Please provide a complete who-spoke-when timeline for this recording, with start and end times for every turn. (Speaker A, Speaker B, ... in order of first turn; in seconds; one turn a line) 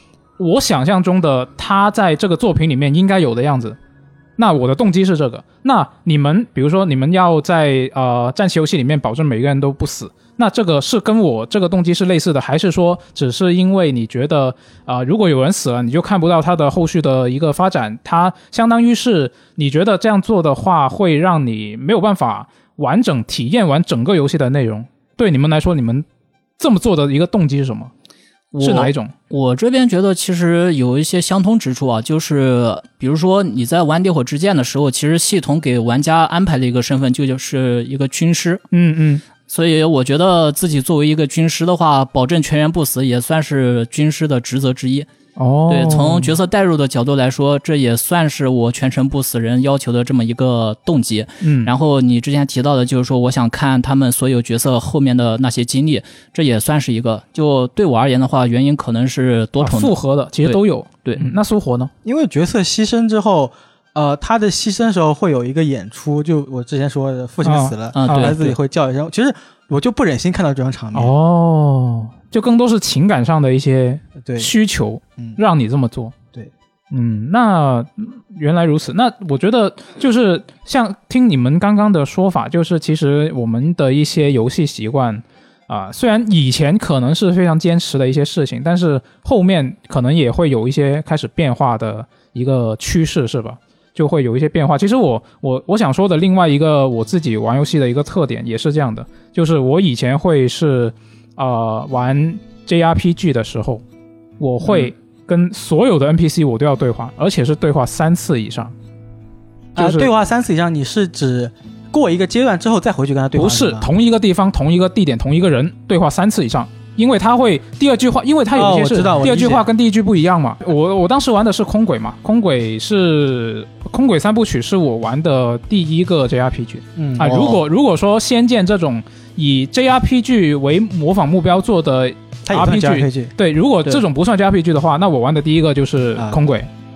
Speaker A: 0.4-3.8
Speaker A: 4.4-26.1
Speaker A: 26.6-27.9
Speaker B: 28.5-38.6
Speaker A: 28.6-29.1
Speaker A: 38.7-39.2
Speaker B: 39.5-45.1
Speaker A: 45.4-46.3
Speaker B: 45.7-61.3
Speaker A: 51.4-51.7
Speaker A: 59.6-61.9
Speaker C: 62.0-71.1
Speaker A: 67.4-68.5
Speaker B: 67.9-68.5
Speaker A: 70.9-76.2
Speaker C: 74.2-74.5
Speaker A: 76.9-103.8
Speaker A: 104.4-108.7
Speaker C: 109.8-113.9
Speaker A: 109.8-110.1
Speaker A: 113.4-136.7
Speaker C: 118.5-119.7
Speaker C: 127.0-127.6
Speaker B: 127.3-127.6
Speaker C: 132.5-133.3
Speaker C: 136.2-136.4